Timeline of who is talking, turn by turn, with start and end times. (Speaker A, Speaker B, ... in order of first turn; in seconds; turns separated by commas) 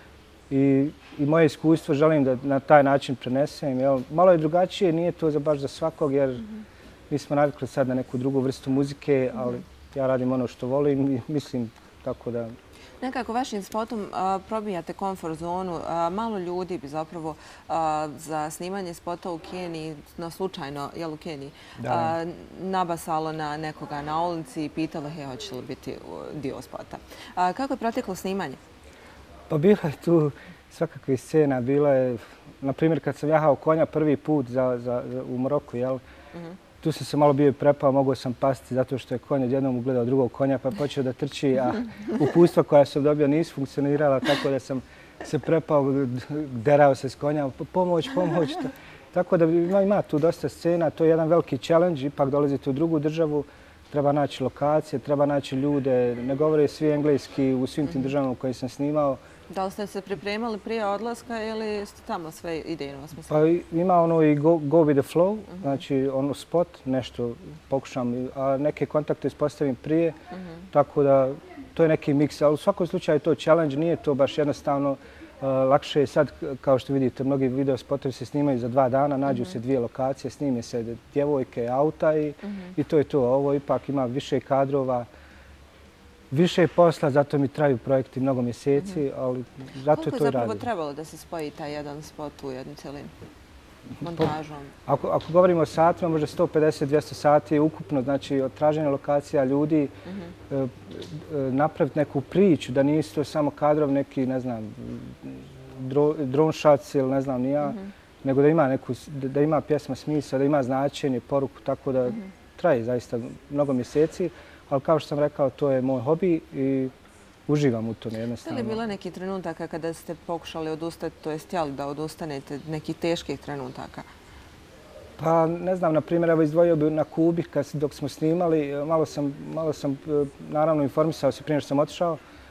Speaker A: 0.5-6.5, Speaker A: 7.1-12.5, Speaker B: 13.0-28.6, Speaker A: 21.8-22.2, Speaker A: 29.5-36.0, Speaker A: 36.8-59.2, Speaker B: 59.5-63.4, Speaker A: 63.3-70.2, Speaker A: 70.7-85.1, Speaker B: 79.3-79.6, Speaker B: 82.4-82.7, Speaker A: 86.3-90.7, Speaker B: 89.9-93.1, Speaker B: 94.0-94.7, Speaker A: 94.9-99.9, Speaker B: 100.1-100.3, Speaker A: 100.5-116.9, Speaker B: 107.6-107.9, Speaker A: 117.5-118.8, Speaker B: 118.4-124.1, Speaker A: 125.2-132.2